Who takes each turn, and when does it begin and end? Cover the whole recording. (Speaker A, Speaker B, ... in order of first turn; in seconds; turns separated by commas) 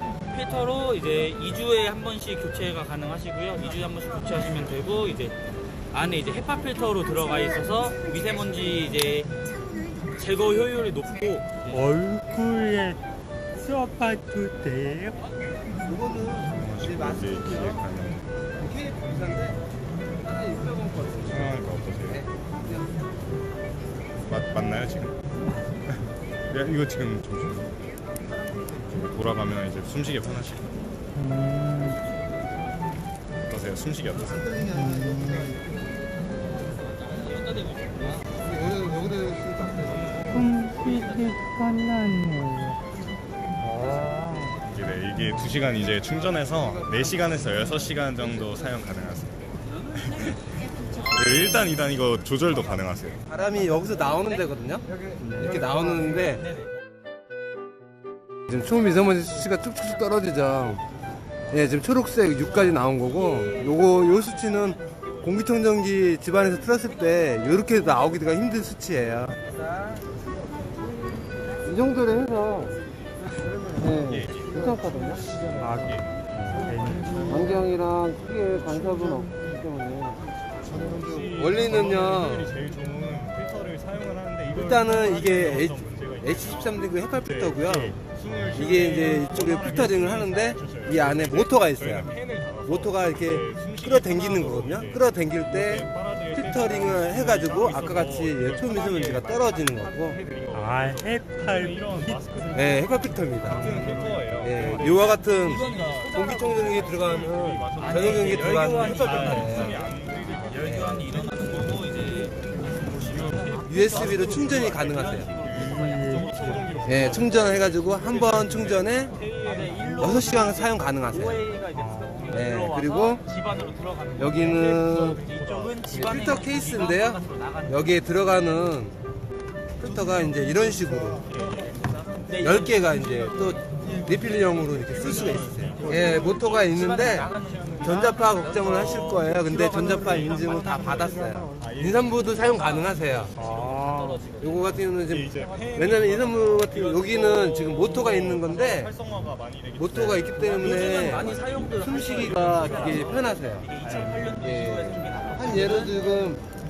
Speaker A: 0.3-5.4, Speaker A: 5.9-9.3, Speaker A: 10.1-11.6, Speaker B: 11.7-13.0, Speaker B: 13.6-15.2, Speaker C: 15.8-17.8, Speaker D: 16.5-18.2, Speaker C: 18.6-19.6, Speaker C: 20.2-22.9, Speaker D: 21.3-22.2, Speaker D: 24.3-25.1, Speaker D: 25.9-27.8, Speaker D: 28.8-30.8, Speaker B: 31.1-32.0, Speaker A: 31.8-32.7, Speaker D: 33.5-34.4, Speaker C: 34.1-36.0, Speaker B: 34.7-35.6, Speaker A: 36.9-38.4, Speaker C: 38.4-40.1, Speaker A: 40.2-41.6, Speaker B: 40.3-42.8, Speaker B: 43.6-44.6, Speaker D: 44.7-50.5, Speaker C: 46.5-48.8, Speaker A: 50.8-51.3, Speaker D: 51.0-53.2, Speaker C: 53.2-56.4, Speaker A: 54.1-54.5, Speaker B: 55.2-55.6, Speaker A: 56.1-56.7, Speaker C: 58.5-60.8, Speaker A: 59.7-60.2, Speaker C: 61.5-69.4, Speaker A: 62.4-65.5, Speaker A: 66.8-68.2, Speaker A: 69.5-70.0, Speaker C: 71.6-72.8, Speaker C: 73.7-75.2, Speaker D: 74.0-74.6, Speaker D: 75.2-76.0, Speaker B: 75.5-77.6, Speaker D: 77.0-77.4, Speaker C: 77.2-82.6, Speaker D: 80.6-102.9, Speaker C: 84.5-88.0, Speaker C: 88.5-92.1, Speaker C: 92.7-100.2, Speaker B: 100.5-102.2, Speaker C: 102.5-109.8, Speaker D: 103.4-111.9, Speaker B: 103.6-104.0, Speaker A: 105.3-117.6, Speaker C: 110.6-111.0, Speaker D: 112.8-120.7, Speaker C: 113.7-115.3, Speaker B: 115.5-116.7, Speaker C: 116.8-119.2, Speaker A: 119.1-128.2, Speaker C: 120.0-121.4, Speaker B: 121.7-122.4, Speaker C: 122.3-123.2, Speaker C: 124.2-125.2, Speaker D: 124.5-126.3, Speaker C: 125.9-128.9, Speaker C: 129.8-131.3, Speaker D: 129.8-131.9, Speaker A: 132.3-141.2, Speaker C: 132.4-137.3, Speaker D: 134.2-142.6, Speaker C: 137.8-143.3, Speaker B: 139.7-141.6, Speaker A: 142.2-144.8, Speaker B: 143.4-144.2, Speaker C: 144.4-148.9, Speaker D: 145.1-154.4, Speaker C: 149.8-153.7, Speaker A: 150.5-156.2, Speaker B: 153.9-154.2, Speaker C: 154.4-156.4